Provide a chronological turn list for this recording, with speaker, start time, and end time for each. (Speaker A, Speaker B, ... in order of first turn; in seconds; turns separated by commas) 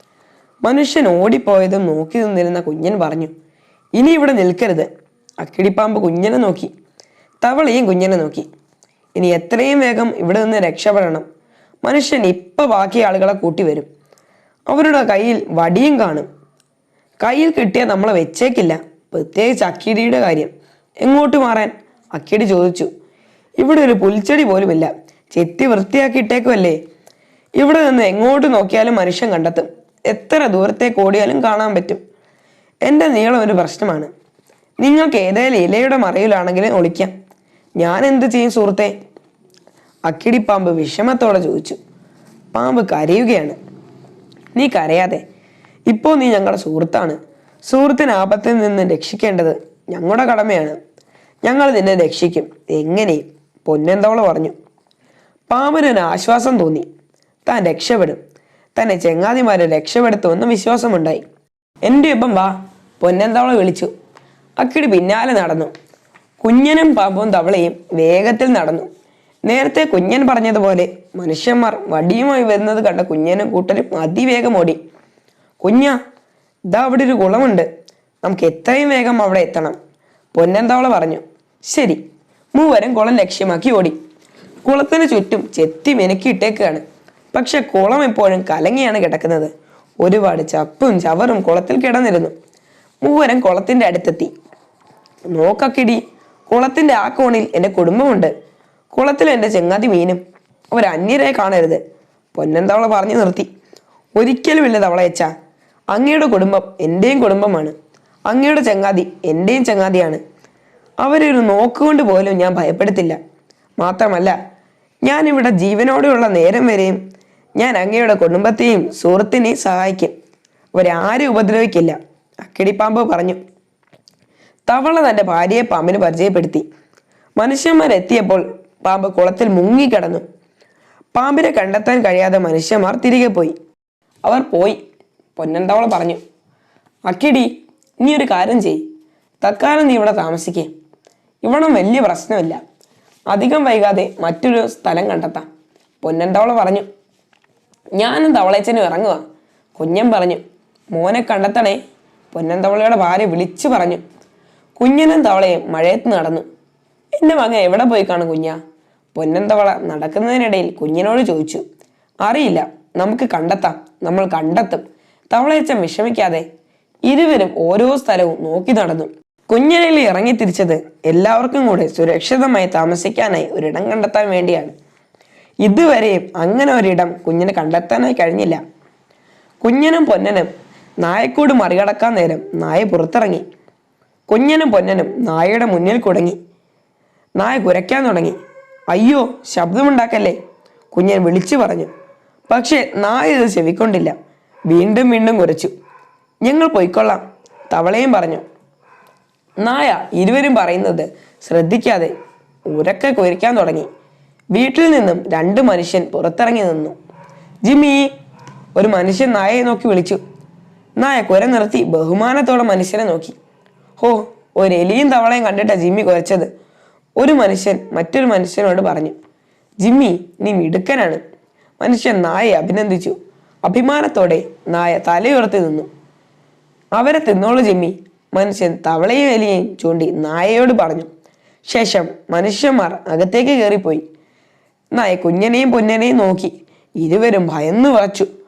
Speaker A: 0.6-3.3, Speaker A: 4.0-4.9, Speaker A: 5.4-6.7, Speaker A: 7.4-8.5, Speaker A: 9.2-11.2, Speaker A: 11.8-13.9, Speaker A: 14.7-16.3, Speaker A: 17.2-22.9, Speaker A: 23.6-26.8, Speaker A: 27.6-32.0, Speaker A: 32.8-34.1, Speaker A: 34.8-37.1, Speaker A: 37.8-38.9, Speaker A: 40.1-41.8, Speaker A: 42.5-43.6, Speaker A: 44.5-45.2, Speaker A: 45.9-50.8, Speaker A: 51.4-54.5, Speaker A: 55.5-56.9, Speaker A: 57.5-58.2, Speaker A: 58.7-61.2, Speaker A: 61.8-63.9, Speaker A: 64.6-65.7, Speaker A: 66.4-68.9, Speaker A: 69.5-74.8, Speaker A: 75.6-76.0, Speaker A: 76.7-77.7, Speaker A: 78.2-79.8, Speaker A: 80.3-82.0, Speaker A: 82.5-84.0, Speaker A: 84.6-89.5, Speaker A: 90.0-92.3, Speaker A: 93.0-94.3, Speaker A: 95.3-98.3, Speaker A: 98.9-101.8, Speaker A: 102.3-103.5, Speaker A: 104.2-105.3, Speaker A: 105.9-107.7, Speaker A: 108.3-110.2, Speaker A: 111.0-113.2, Speaker A: 113.8-114.4, Speaker A: 115.0-117.0, Speaker A: 117.6-120.1, Speaker A: 120.7-123.4, Speaker A: 124.7-126.6, Speaker A: 127.4-130.2, Speaker A: 131.1-133.6, Speaker A: 134.2-134.8, Speaker A: 135.4-136.2, Speaker A: 137.1-137.5, Speaker A: 138.0-138.8, Speaker A: 139.4-140.7, Speaker A: 141.4-142.6, Speaker A: 143.3-145.5, Speaker A: 146.0-146.9, Speaker A: 148.0-149.2, Speaker A: 149.8-151.8, Speaker A: 152.3-154.0, Speaker A: 154.8-156.5, Speaker A: 157.2-158.6, Speaker A: 159.2-161.6, Speaker A: 162.2-166.5, Speaker A: 167.1-174.8, Speaker A: 175.6-178.6, Speaker A: 179.6-180.5, Speaker A: 181.0-183.4, Speaker A: 184.3-186.4, Speaker A: 187.4-188.4, Speaker A: 188.9-190.4, Speaker A: 190.9-191.9, Speaker A: 192.5-194.2, Speaker A: 194.7-195.7, Speaker A: 196.4-198.4, Speaker A: 199.6-202.1, Speaker A: 202.7-203.9, Speaker A: 204.6-207.0, Speaker A: 207.6-208.1, Speaker A: 208.8-210.2, Speaker A: 211.0-213.3, Speaker A: 214.0-216.5, Speaker A: 217.2-219.2, Speaker A: 219.8-221.2, Speaker A: 221.8-225.9, Speaker A: 227.0-231.1, Speaker A: 231.7-234.0, Speaker A: 234.9-238.3